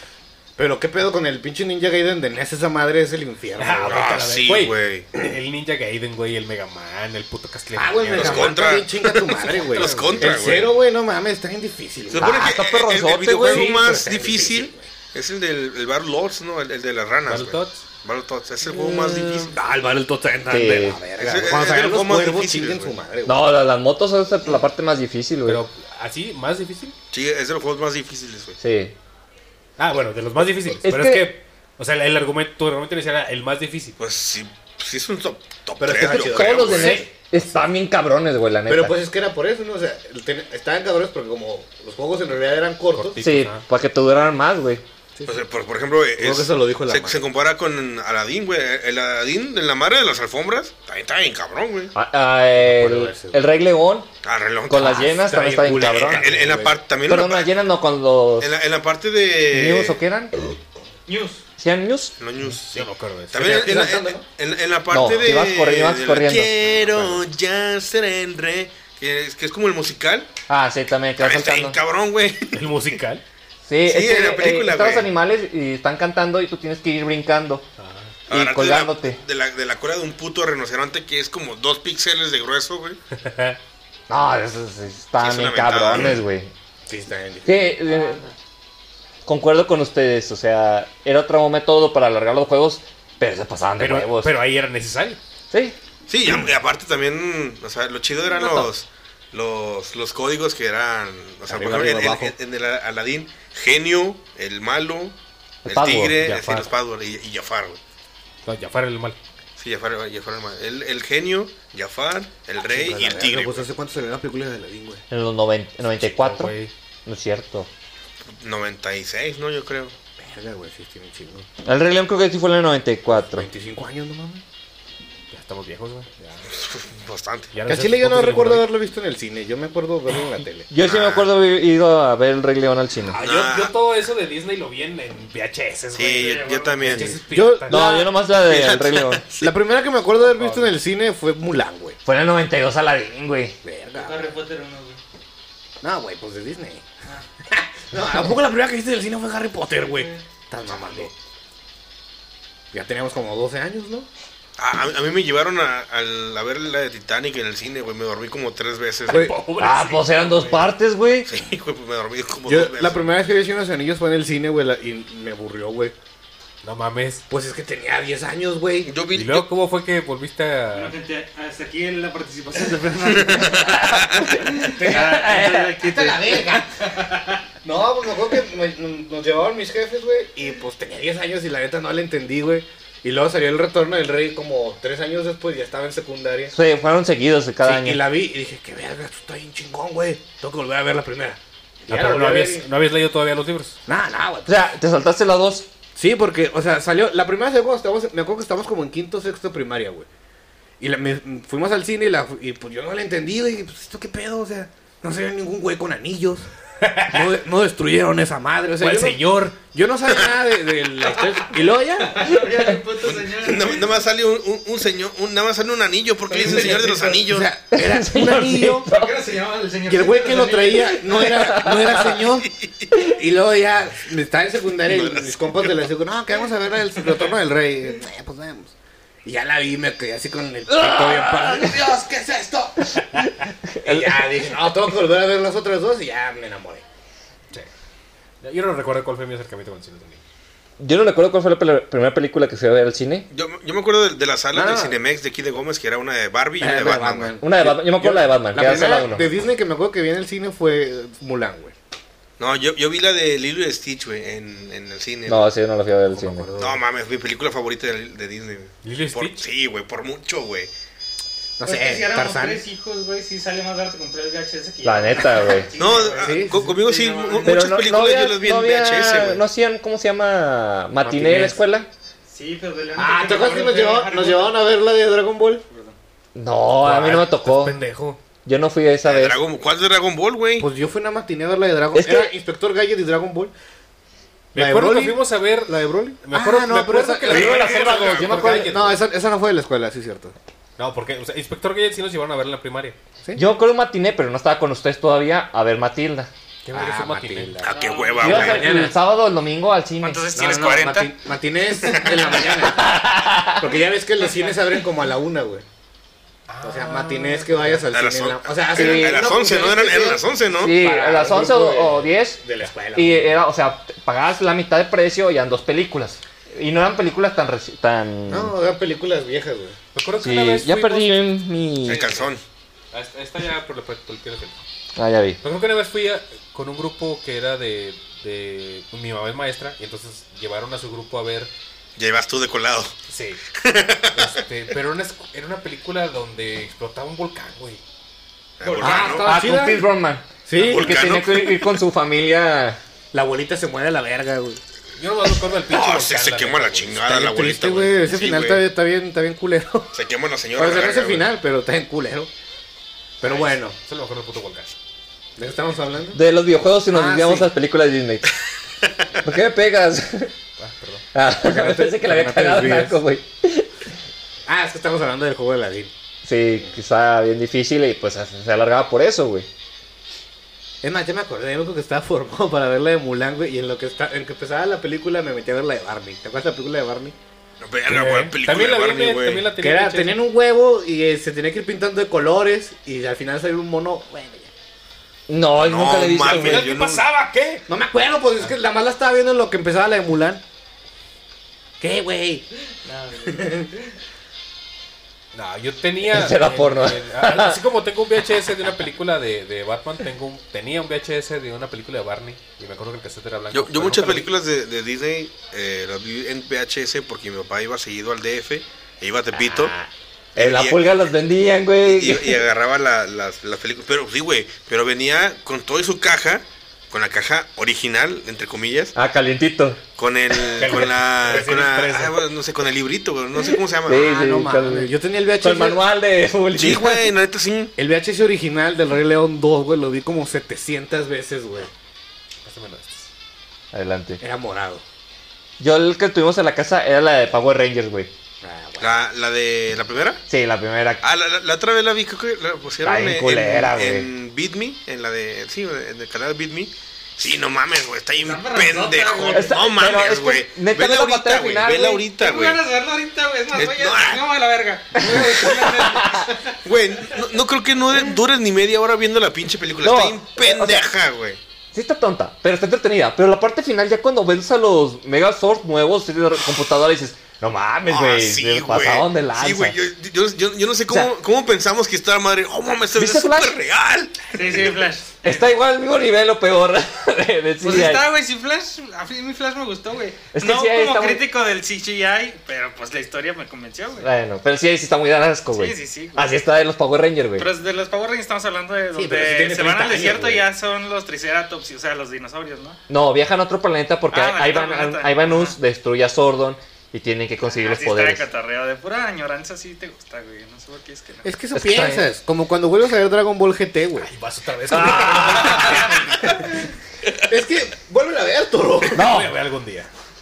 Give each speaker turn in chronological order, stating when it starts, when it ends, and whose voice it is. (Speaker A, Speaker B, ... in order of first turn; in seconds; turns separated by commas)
Speaker A: 0.6-4.2, Speaker B: 3.6-8.8, Speaker C: 3.8-5.1, Speaker A: 7.7-12.5, Speaker C: 8.1-10.7, Speaker B: 9.5-10.6, Speaker C: 12.1-19.6, Speaker D: 12.2-13.8, Speaker A: 13.4-14.9, Speaker B: 17.2-17.8, Speaker D: 18.8-19.4, Speaker A: 19.5-23.6, Speaker D: 20.5-21.0, Speaker C: 21.2-22.9, Speaker D: 23.2-25.6, Speaker B: 25.4-26.9, Speaker C: 27.1-28.6, Speaker D: 28.6-28.9, Speaker B: 29.8-34.0, Speaker D: 30.8-31.3, Speaker C: 34.0-37.1, Speaker A: 35.8-37.1, Speaker D: 36.0-39.0, Speaker A: 38.7-43.2, Speaker B: 42.9-43.6, Speaker D: 43.2-44.8, Speaker C: 45.2-51.9, Speaker A: 46.2-47.2, Speaker D: 51.9-54.1, Speaker A: 52.5-53.4, Speaker C: 54.2-55.1, Speaker D: 54.7-56.4, Speaker A: 54.8-56.8, Speaker C: 55.8-57.5, Speaker D: 57.0-58.5, Speaker C: 58.4-60.0, Speaker D: 59.5-60.5, Speaker E: 61.1-61.4, Speaker D: 61.6-62.1, Speaker C: 62.2-70.3, Speaker B: 62.4-63.5, Speaker A: 63.3-64.2, Speaker D: 64.9-67.1, Speaker D: 70.5-71.8, Speaker C: 71.2-72.7, Speaker B: 72.5-73.2, Speaker D: 73.7-77.6, Speaker C: 73.8-75.1, Speaker B: 77.8-78.1, Speaker C: 78.3-83.0, Speaker D: 78.3-79.2, Speaker B: 83.1-83.6, Speaker D: 84.1-86.5, Speaker C: 85.2-86.2, Speaker A: 86.9-87.8, Speaker D: 87.4-88.2, Speaker E: 87.9-88.3, Speaker D: 89.2-94.3, Speaker B: 93.8-95.2, Speaker D: 95.5-95.8, Speaker C: 96.1-107.8, Speaker D: 98.3-98.7, Speaker A: 101.5-102.3, Speaker D: 105.6-106.2, Speaker B: 106.2-106.7, Speaker B: 108.4-109.2, Speaker C: 109.6-113.7, Speaker A: 112.6-115.0, Speaker D: 115.1-116.5, Speaker B: 116.0-116.7, Speaker D: 117.0-117.7, Speaker C: 118.3-119.9, Speaker A: 120.2-121.5, Speaker D: 121.6-123.5, Speaker A: 123.1-124.4, Speaker B: 125.3-126.2, Speaker C: 126.5-127.5, Speaker B: 127.5-128.7, Speaker A: 127.7-130.7, Speaker D: 130.7-133.2, Speaker C: 130.8-131.3, Speaker B: 133.1-137.9, Speaker C: 133.2-133.7, Speaker C: 135.9-137.1, Speaker E: 136.0-137.0, Speaker A: 137.2-138.1, Speaker D: 137.7-139.2, Speaker C: 138.4-139.5, Speaker A: 139.4-142.0, Speaker B: 140.3-140.7, Speaker D: 142.1-143.6, Speaker A: 143.6-144.4, Speaker E: 143.9-145.0, Speaker A: 145.8-146.8, Speaker A: 147.5-151.1, Speaker E: 149.8-150.2, Speaker A: 152.7-154.1, Speaker C: 154.6-159.3, Speaker B: 159.1-160.7, Speaker A: 159.1-159.4, Speaker D: 159.6-161.3, Speaker C: 161.3-163.1, Speaker A: 162.4-165.9, Speaker B: 166.6-167.2, Speaker A: 167.3-169.0, Speaker C: 168.8-169.5, Speaker B: 169.2-170.9, Speaker E: 170.7-177.4, Speaker C: 173.1-174.4, Speaker D: 173.6-175.8, Speaker A: 174.5-176.9, Speaker A: 177.6-186.5, Speaker D: 186.5-188.0, Speaker A: 187.6-192.7, Speaker B: 191.9-193.8, Speaker A: 193.9-194.7, Speaker D: 194.5-195.7, Speaker A: 195.9-200.1, Speaker A: 200.8-206.5, Speaker B: 206.8-207.3, Speaker A: 207.1-212.5, Speaker B: 208.8-209.6, Speaker E: 211.2-211.4, Speaker E: 212.0-213.9, Speaker C: 213.0-217.5, Speaker E: 216.3-217.3, Speaker A: 216.4-218.9, Speaker D: 217.7-219.2, Speaker E: 218.9-221.3, Speaker A: 219.8-222.5, Speaker D: 221.3-222.2, Speaker C: 222.5-222.9, Speaker A: 223.0-228.7, Speaker C: 224.8-225.7, Speaker A: 229.2-233.0, Speaker D: 230.7-231.8, Speaker D: 232.9-234.5, Speaker A: 233.8-236.8, Speaker B: 238.4-240.2, Speaker D: 240.8-243.3, Speaker C: 243.3-247.3, Speaker A: 244.5-245.0, Speaker A: 246.6-251.7, Speaker D: 247.4-249.2, Speaker B: 248.7-249.2, Speaker C: 252.4-255.5, Speaker D: 255.3-256.5, Speaker A: 256.1-256.8, Speaker C: 256.6-260.7, Speaker B: 258.8-259.4, Speaker A: 261.6-262.6, Speaker E: 261.6-267.6, Speaker D: 264.8-265.7, Speaker C: 265.8-269.4, Speaker A: 266.2-266.7, Speaker D: 267.4-271.9, Speaker A: 271.0-271.6, Speaker E: 272.3-274.5, Speaker A: 272.9-275.6, Speaker E: 275.7-275.9, Speaker D: 276.3-277.8, Speaker B: 276.8-278.2, Speaker D: 278.4-279.4, Speaker C: 279.0-280.7, Speaker A: 280.6-283.5, Speaker D: 281.9-282.3, Speaker B: 284.5-289.0, Speaker A: 284.5-287.9, Speaker D: 287.3-288.7, Speaker C: 287.3-288.5, Speaker A: 288.5-290.3, Speaker B: 290.8-293.0, Speaker D: 293.3-296.3, Speaker B: 296.6-297.6, Speaker A: 296.7-299.0, Speaker C: 297.6-298.8, Speaker E: 297.7-298.4, Speaker D: 298.2-300.2, Speaker B: 298.4-298.8, Speaker E: 300.0-301.1, Speaker A: 300.3-303.1, Speaker E: 301.9-302.2, Speaker D: 302.6-303.7, Speaker A: 303.6-305.6, Speaker B: 306.5-307.9, Speaker A: 306.6-313.4, Speaker C: 307.9-310.8, Speaker D: 308.7-309.3, Speaker D: 310.5-312.4, Speaker D: 312.9-318.5, Speaker A: 318.3-319.8, Speaker B: 319.9-321.3, Speaker D: 320.2-322.2, Speaker C: 321.8-322.4, Speaker B: 321.9-322.3, Speaker B: 322.9-324.6, Speaker D: 324.9-325.4, Speaker B: 325.4-331.5, Speaker C: 332.0-332.9, Speaker B: 333.1-333.4, Speaker C: 333.5-334.4, Speaker B: 334.1-337.8, Speaker C: 338.6-339.3, Speaker E: 338.6-339.4, Speaker A: 338.8-339.9, Speaker D: 338.8-342.8, Speaker A: 340.4-341.2, Speaker C: 340.6-341.8, Speaker A: 343.1-344.6, Speaker B: 345.0-347.0, Speaker C: 345.6-348.7, Speaker A: 347.0-349.9, Speaker C: 349.9-351.3, Speaker A: 350.6-352.3, Speaker A: 353.2-353.8, Speaker B: 353.2-354.7, Speaker A: 355.4-356.2, Speaker D: 356.1-358.3, Speaker A: 356.9-357.5, Speaker D: 359.2-360.3, Speaker B: 360.6-361.0, Speaker D: 361.1-363.8, Speaker A: 361.3-363.0, Speaker A: 364.5-365.9, Speaker D: 366.2-369.5, Speaker A: 370.8-377.1, Speaker C: 377.6-379.4, Speaker B: 377.9-380.2, Speaker A: 379.6-384.5, Speaker D: 385.3-386.7, Speaker C: 385.6-387.0, Speaker B: 386.2-387.6, Speaker A: 387.7-390.4, Speaker A: 391.8-392.4, Speaker E: 392.8-393.6, Speaker A: 393.2-393.7, Speaker B: 395.3-404.3, Speaker D: 396.0-397.6, Speaker C: 403.5-409.7, Speaker D: 409.3-412.4, Speaker C: 410.4-410.8, Speaker C: 411.8-418.9, Speaker D: 418.9-419.8, Speaker C: 420.0-424.2, Speaker B: 420.6-422.2, Speaker D: 423.8-427.1, Speaker A: 423.9-425.8, Speaker C: 426.5-427.7, Speaker A: 427.8-431.7, Speaker B: 432.4-433.1, Speaker D: 433.7-434.2, Speaker A: 434.2-434.8, Speaker D: 435.6-438.1, Speaker A: 438.4-439.0, Speaker C: 438.8-440.2, Speaker D: 440.3-441.0, Speaker C: 441.0-452.6, Speaker D: 442.8-444.1, Speaker E: 448.2-449.6, Speaker D: 449.3-452.0, Speaker E: 452.1-457.2, Speaker C: 453.5-454.3, Speaker D: 455.0-456.3, Speaker C: 456.6-461.4, Speaker D: 459.8-460.9, Speaker D: 461.7-469.8, Speaker C: 467.9-474.8, Speaker D: 472.9-473.6, Speaker E: 474.3-475.5, Speaker D: 475.2-478.1, Speaker E: 477.6-484.1, Speaker D: 480.3-481.2, Speaker D: 484.0-487.5, Speaker E: 485.5-486.4, Speaker E: 487.4-492.8, Speaker A: 488.9-490.5, Speaker D: 492.9-498.2, Speaker E: 494.1-495.6, Speaker E: 497.5-501.3, Speaker A: 501.2-504.1, Speaker D: 501.5-502.1, Speaker B: 504.0-506.4, Speaker D: 504.7-506.1, Speaker A: 504.8-505.9, Speaker A: 507.2-509.0, Speaker B: 508.9-509.9, Speaker D: 508.9-509.4